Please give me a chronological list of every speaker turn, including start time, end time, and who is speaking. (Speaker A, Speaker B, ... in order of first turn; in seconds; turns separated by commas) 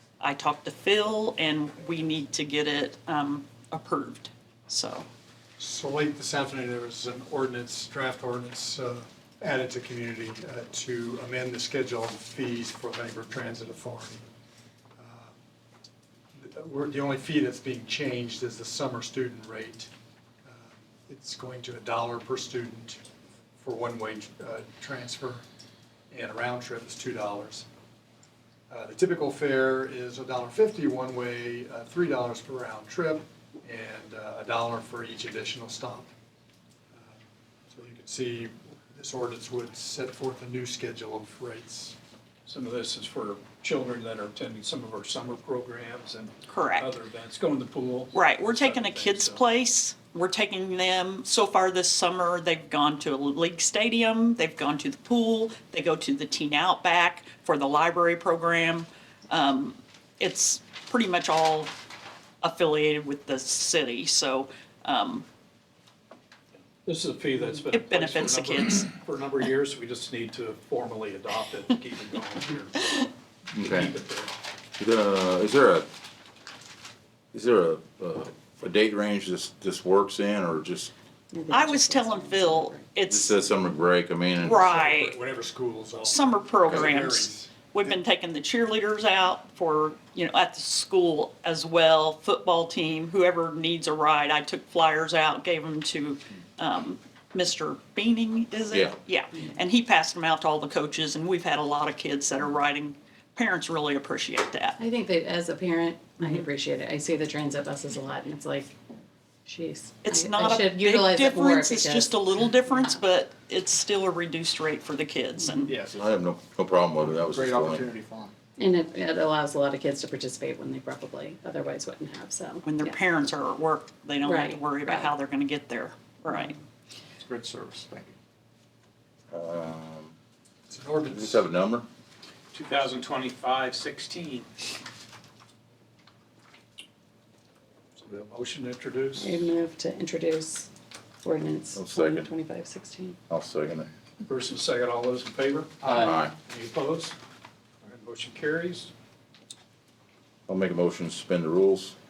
Speaker A: 0.2-5.0, Speaker B: 5.6-14.2, Speaker B: 15.0-15.3, Speaker B: 16.4-19.9, Speaker B: 20.5-23.0, Speaker B: 23.6-25.4, Speaker B: 26.1-27.6, Speaker B: 28.7-36.1, Speaker B: 37.7-41.9, Speaker C: 42.5-49.4, Speaker A: 46.5-46.9, Speaker A: 48.1-61.7, Speaker A: 62.4-65.2, Speaker C: 66.8-72.9, Speaker A: 67.5-68.9, Speaker D: 73.5-73.9, Speaker C: 73.6-74.3, Speaker D: 74.8-75.9, Speaker D: 77.3-80.9, Speaker E: 81.3-83.0, Speaker A: 81.5-83.4, Speaker D: 83.1-84.7, Speaker A: 84.4-85.2, Speaker B: 84.8-86.2, Speaker A: 86.0-104.8, Speaker B: 86.9-87.5, Speaker D: 98.7-99.0, Speaker E: 104.8-108.7, Speaker E: 109.5-113.0, Speaker A: 110.0-115.7, Speaker E: 115.4-115.7, Speaker F: 115.7-116.1, Speaker D: 115.9-117.9, Speaker F: 117.2-118.3, Speaker E: 118.6-123.0, Speaker A: 122.6-126.5, Speaker E: 124.2-125.1, Speaker F: 127.2-128.1, Speaker D: 129.3-130.1, Speaker B: 130.7-131.2, Speaker D: 131.1-131.9, Speaker G: 132.5-134.5, Speaker C: 138.0-139.5, Speaker E: 139.2-140.7, Speaker E: 141.2-143.2, Speaker D: 141.7-142.3, Speaker D: 143.3-143.9, Speaker C: 144.2-147.1, Speaker F: 145.8-146.1, Speaker D: 145.9-146.3, Speaker C: 147.8-148.9, Speaker D: 150.5-151.9